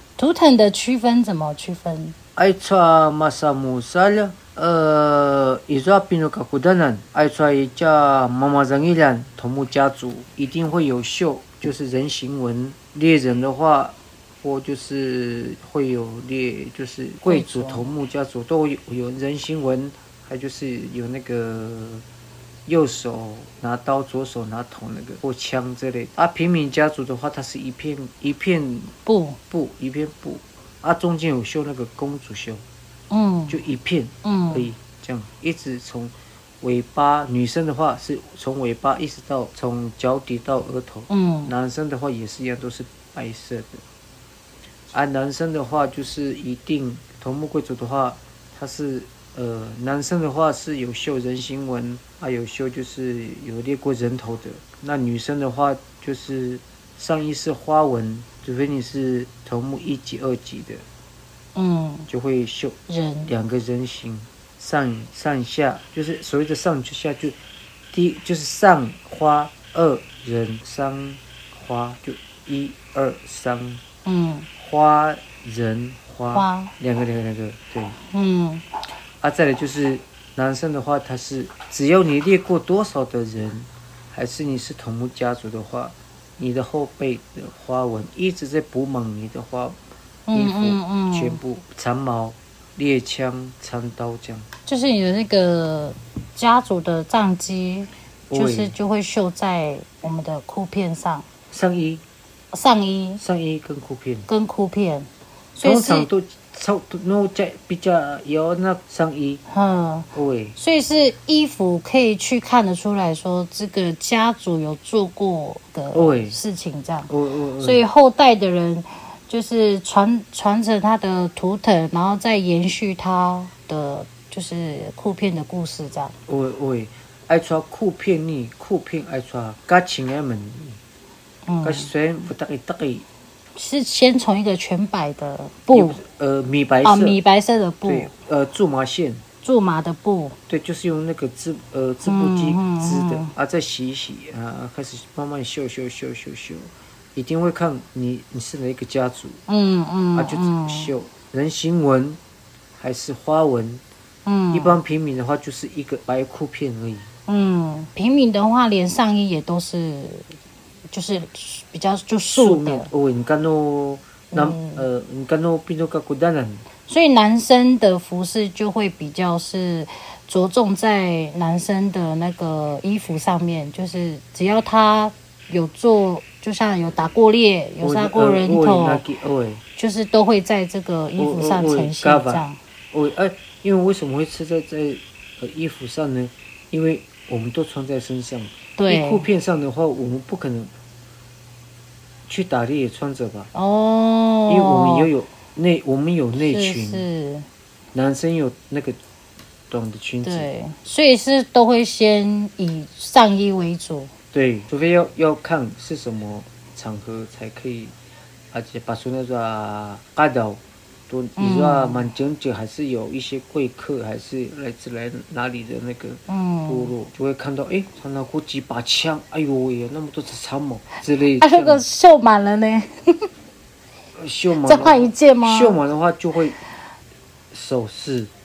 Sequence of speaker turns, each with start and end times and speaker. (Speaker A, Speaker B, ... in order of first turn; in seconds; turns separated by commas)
Speaker A: 0.2-2.2, Speaker B: 2.4-22.1, Speaker A: 17.3-17.9, Speaker B: 22.7-28.9, Speaker A: 29.1-29.4, Speaker B: 29.5-32.6, Speaker A: 33.1-33.6, Speaker B: 33.5-43.8, Speaker A: 34.2-34.7, Speaker A: 41.1-41.5, Speaker B: 44.9-60.9, Speaker A: 61.5-62.1, Speaker B: 62.1-67.4, Speaker A: 62.9-63.3, Speaker B: 67.9-73.8, Speaker A: 74.0-74.5, Speaker B: 74.6-78.0, Speaker A: 76.3-76.7, Speaker A: 78.1-78.7, Speaker B: 79.2-89.8, Speaker A: 90.3-91.4, Speaker B: 90.3-94.5, Speaker A: 94.7-101.3, Speaker B: 98.3-98.7, Speaker B: 101.5-102.0, Speaker A: 102.5-103.2, Speaker B: 103.2-104.3, Speaker A: 104.3-106.1, Speaker B: 105.6-109.4, Speaker A: 109.5-117.1, Speaker B: 110.1-110.6, Speaker B: 115.9-116.4, Speaker B: 117.1-117.8, Speaker A: 117.6-126.1, Speaker B: 126.3-130.8, Speaker A: 131.5-131.9, Speaker B: 131.6-133.1, Speaker A: 133.6-136.0, Speaker B: 135.7-137.2, Speaker A: 136.8-138.1, Speaker B: 137.9-139.2, Speaker A: 139.4-140.4, Speaker B: 140.5-149.4, Speaker A: 142.1-143.3, Speaker A: 149.5-150.9, Speaker B: 150.2-152.2, Speaker B: 152.8-153.8, Speaker A: 154.3-154.8, Speaker B: 154.5-157.1, Speaker A: 157.3-160.3, Speaker A: 160.9-162.9, Speaker B: 162.3-166.7, Speaker A: 164.3-164.9, Speaker A: 166.9-179.0, Speaker B: 177.8-179.6, Speaker A: 179.8-182.6, Speaker B: 181.2-190.7, Speaker A: 188.8-189.3, Speaker B: 192.3-193.5, Speaker A: 193.5-195.1, Speaker B: 194.5-197.1, Speaker A: 196.4-197.5, Speaker B: 197.9-199.0, Speaker B: 199.7-200.5, Speaker A: 200.2-204.1, Speaker B: 204.3-207.9, Speaker B: 208.5-221.8, Speaker A: 211.4-212.1, Speaker A: 216.3-216.9, Speaker A: 221.4-223.3, Speaker B: 224.2-226.6, Speaker A: 224.6-225.8, Speaker B: 227.5-228.3